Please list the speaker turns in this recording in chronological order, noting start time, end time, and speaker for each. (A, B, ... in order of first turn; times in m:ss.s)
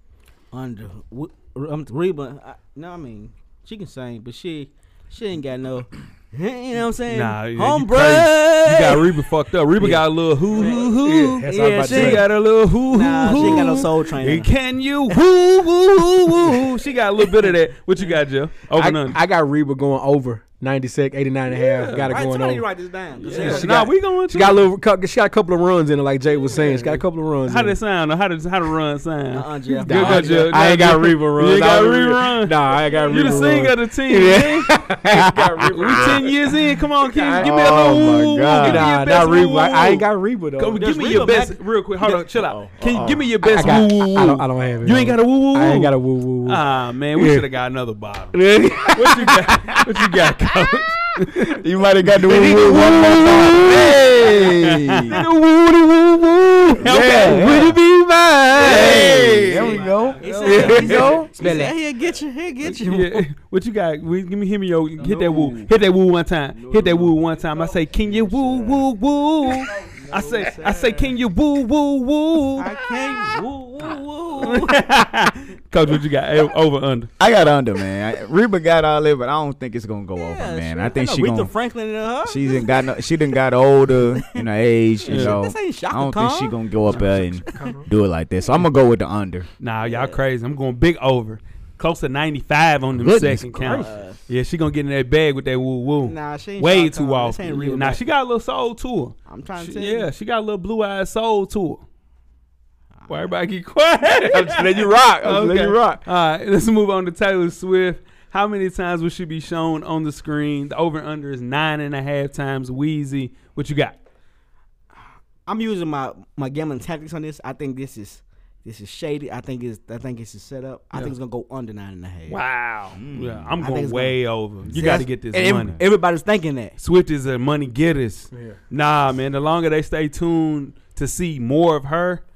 0:00.5-0:09.2 A
0:07.1-0:15.3 B
0:09.8-0:11.0 A
0:10.6-0:12.3 C
0:11.6-0:12.3 A
0:12.8-0:14.5 A
0:13.4-0:13.8 C
0:15.2-0:16.4 A
0:15.9-0:19.2 B
0:18.7-0:22.6 C
0:21.5-0:22.1 B
0:21.9-0:23.8 A
0:23.2-0:27.8 C
0:23.2-0:24.6 B
0:26.5-0:34.8 B
0:29.3-0:30.5 A
0:29.8-0:40.8 C
0:35.1-0:36.3 D
0:35.7-0:40.1 B
0:37.4-0:38.9 D
0:40.6-0:51.6 B
0:40.7-0:41.6 A
0:42.3-0:43.3 D
0:43.4-0:46.6 C
0:47.1-0:47.4 C
0:48.3-0:49.8 C
0:51.5-0:55.2 D
0:52.1-0:54.4 C
0:52.9-0:55.3 B
0:55.1-0:59.7 C
0:56.8-0:57.8 B
0:56.8-0:57.8 D
0:58.6-1:01.3 D
0:58.6-1:01.2 B
0:58.6-1:03.2 A
1:00.4-1:01.7 C
1:02.6-1:13.4 B
1:05.0-1:05.7 A
1:06.5-1:07.2 A
1:08.1-1:08.8 A
1:09.9-1:11.1 A
1:12.6-1:14.9 A
1:14.4-1:17.1 B
1:17.2-1:21.5 D
1:20.2-1:22.8 A
1:22.2-1:29.5 D
1:25.0-1:27.8 A
1:25.0-1:25.4 B
1:27.4-1:27.9 C
1:29.6-1:41.8 B
1:29.8-1:30.2 A
1:32.9-1:33.9 D
1:33.6-1:34.2 A
1:36.0-1:38.0 A
1:39.2-1:40.1 A
1:43.0-1:43.4 A
1:43.1-1:54.0 B
1:44.1-1:46.0 C
1:55.4-2:02.4 A
2:02.3-2:05.8 B
2:02.9-2:03.5 D
2:03.6-2:06.8 A
2:04.7-2:05.0 D
2:06.8-2:12.2 B
2:08.3-2:08.6 C